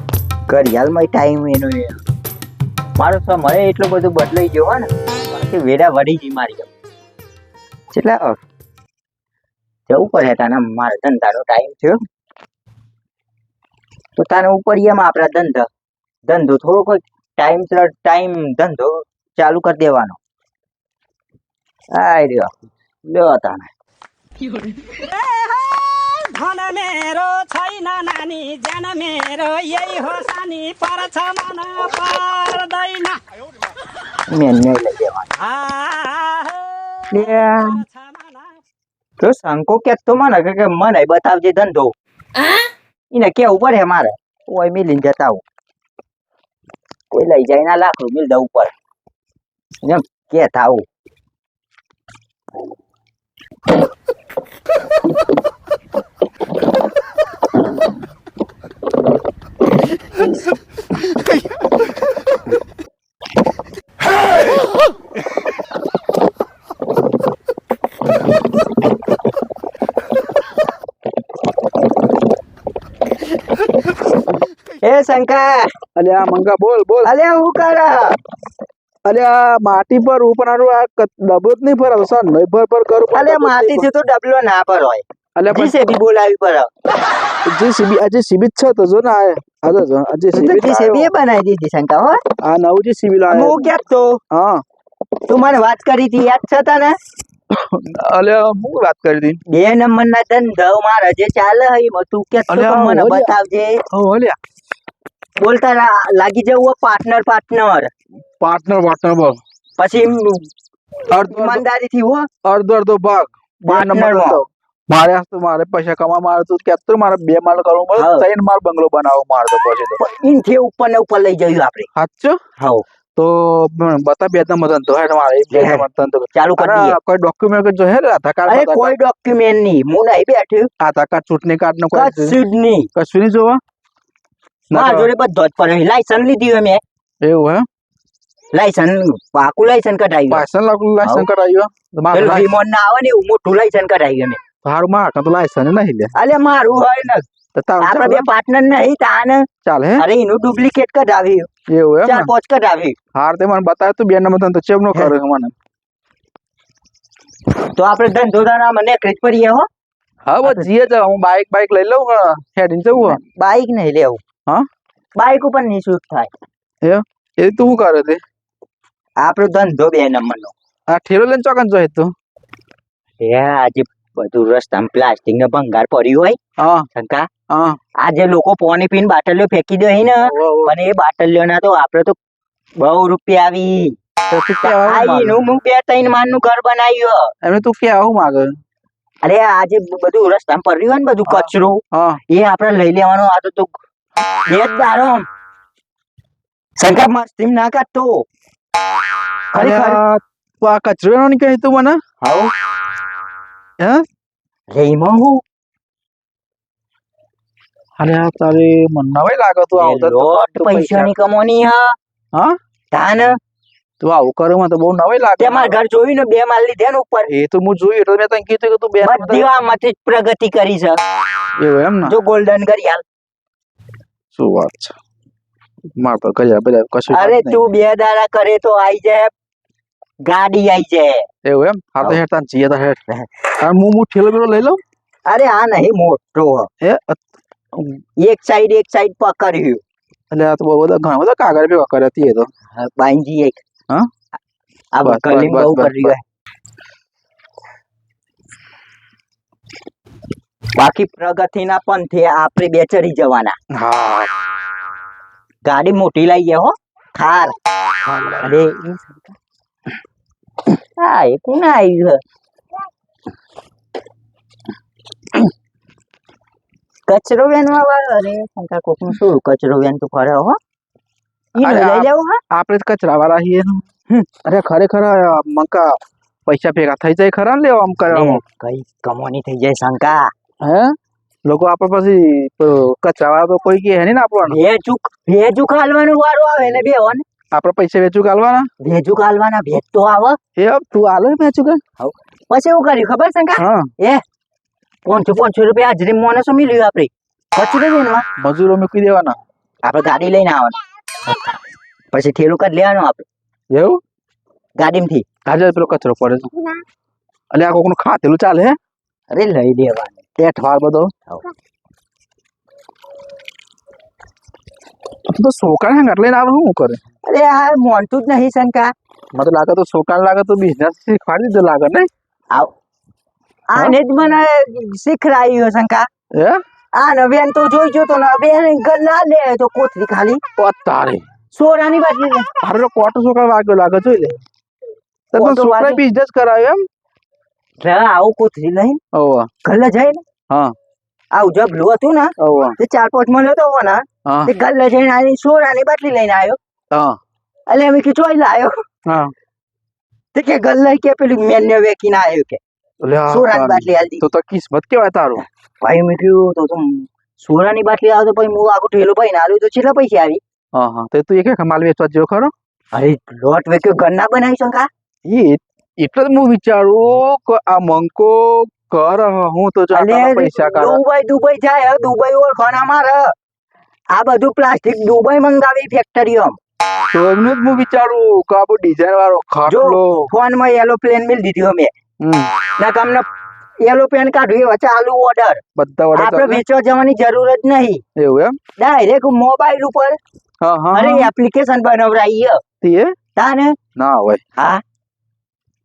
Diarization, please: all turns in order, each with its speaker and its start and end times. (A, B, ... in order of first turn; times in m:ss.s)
0:00.5-0:02.0 A
0:03.0-0:06.7 A
0:07.9-0:08.4 A
0:09.9-0:12.0 A
0:14.2-0:15.7 A
0:16.2-0:20.2 A
0:21.9-0:22.5 A
0:23.0-0:23.7 A
0:24.9-0:33.3 B
0:34.3-0:35.3 A
0:35.4-0:38.6 B
0:37.1-0:37.8 A
0:39.2-0:41.9 A
0:43.1-0:45.4 A
0:47.1-0:48.7 A
0:49.8-0:50.9 A
1:14.8-1:15.7 A
1:16.0-1:17.1 C
1:17.0-1:18.2 A
1:19.1-1:23.9 C
1:23.1-1:26.7 A
1:25.4-1:25.8 C
1:27.4-1:31.1 C
1:30.3-1:32.2 A
1:32.4-1:33.7 C
1:33.3-1:34.2 A
1:34.3-1:34.6 C
1:35.3-1:37.0 A
1:37.5-1:39.4 C
1:39.5-1:43.8 A
1:42.5-1:43.3 C
1:43.9-1:44.4 C
1:45.4-1:47.9 A
1:48.4-1:49.4 C
1:49.8-1:50.5 A
1:51.1-1:51.6 C
1:51.1-1:52.3 A
1:52.4-2:00.0 C
1:53.7-1:54.4 A
1:58.0-1:58.3 A
2:00.0-2:01.9 A
2:02.0-2:02.4 C
2:02.6-2:02.8 A
2:03.2-2:09.0 C
2:05.5-2:07.0 A
2:08.5-2:10.7 A
2:10.8-2:12.4 C
2:11.9-2:12.9 A
2:13.0-2:13.6 C
2:14.7-2:15.1 C
2:14.7-2:16.8 A
2:17.2-2:17.7 C
2:18.5-2:20.4 A
2:20.3-2:22.5 C
2:21.0-2:21.3 A
2:22.1-2:24.4 A
2:24.6-2:26.1 C
2:26.2-2:27.2 A
2:27.6-2:28.3 C
2:27.8-2:29.5 A
2:29.6-2:30.0 C
2:30.0-2:31.5 A
2:31.7-2:32.3 C
2:32.0-2:33.0 A
2:33.2-2:35.5 C
2:37.6-2:39.7 A
2:40.3-2:43.2 C
2:40.4-2:40.7 A
2:42.9-2:44.2 A
2:45.2-2:46.3 A
2:46.8-2:48.2 C
2:49.2-2:50.5 A
2:50.9-2:52.1 C
2:53.2-2:56.4 A
2:56.6-2:56.9 C
2:56.9-2:57.3 A
2:57.5-2:57.8 C
2:58.0-3:02.2 A
3:00.2-3:00.8 C
3:02.8-3:04.0 A
3:04.3-3:05.5 C
3:04.6-3:07.3 A
3:07.4-3:08.6 C
3:09.2-3:13.8 A
3:11.3-3:12.2 C
3:14.5-3:15.3 A
3:16.8-3:18.2 A
3:19.5-3:20.0 A
3:19.5-3:22.0 C
3:22.2-3:22.5 A
3:23.8-3:24.0 C
3:24.7-3:25.4 A
3:28.0-3:31.1 C
3:29.8-3:32.0 A
3:32.9-3:33.4 A
3:34.0-3:35.8 C
3:35.4-3:37.3 A
3:37.3-3:39.5 C
3:39.0-3:41.0 A
3:41.6-3:42.2 C
3:42.0-3:43.0 A
3:44.3-3:45.0 C
3:46.0-3:47.7 C
3:47.1-3:49.3 A
3:50.2-3:51.3 A
3:51.4-3:53.0 C
3:53.6-3:54.8 C
3:55.3-3:56.7 A
3:56.8-3:57.2 C
3:57.7-3:58.0 C
3:58.2-3:59.8 A
4:00.3-4:02.5 C
4:02.8-4:03.6 A
4:04.9-4:06.2 A
4:05.0-4:06.2 C
4:10.8-4:13.6 A
4:13.7-4:14.3 C
4:15.6-4:19.4 A
4:21.0-4:22.2 A
4:27.1-4:30.6 A
4:31.6-4:32.4 A
4:31.6-4:33.8 C
4:34.4-4:38.4 C
4:38.1-4:40.3 A
4:40.6-4:44.6 C
4:44.4-4:47.2 A
4:47.5-4:48.7 C
4:48.8-4:50.4 A
4:50.6-4:51.8 C
4:52.0-4:54.2 A
4:53.6-4:53.9 C
4:55.0-4:58.2 A
4:58.4-4:59.4 C
4:59.8-5:00.8 A
5:02.1-5:03.3 A
5:03.7-5:04.0 C
5:04.8-5:05.3 A
5:05.5-5:06.5 C
5:07.5-5:08.8 C
5:09.3-5:10.2 A
5:10.4-5:11.1 C
5:15.3-5:17.0 C
5:17.2-5:18.9 A
5:19.3-5:22.1 C
5:23.7-5:26.1 A
5:26.3-5:26.6 C
5:27.0-5:30.4 A
5:30.6-5:31.2 C
5:31.6-5:32.5 A
5:32.6-5:34.4 C
5:35.3-5:36.8 C
5:35.3-5:36.0 A
5:37.8-5:39.0 A
5:39.1-5:39.5 C
5:39.6-5:40.2 A
5:41.3-5:46.6 A
5:42.4-5:42.8 C
5:44.3-5:44.5 C
5:46.9-5:47.2 C
5:47.7-5:48.8 A
5:49.1-5:49.3 C
5:50.3-5:52.6 A
5:53.0-5:55.4 C
5:53.3-5:54.2 A
5:55.4-6:00.4 A
6:00.7-6:02.5 C
6:02.9-6:04.9 A
6:05.2-6:11.0 C
6:09.9-6:13.3 A
6:14.1-6:16.6 A
6:17.1-6:20.3 C
6:19.7-6:21.9 A
6:22.2-6:22.5 C
6:22.8-6:23.3 A
6:23.8-6:25.6 A
6:25.8-6:26.6 C
6:26.2-6:28.0 A
6:28.2-6:28.6 C
6:28.8-6:30.2 A
6:30.6-6:31.3 C
6:30.9-6:32.6 A
6:32.8-6:33.1 C
6:33.4-6:33.8 A
6:34.0-6:34.4 C
6:34.6-6:34.8 A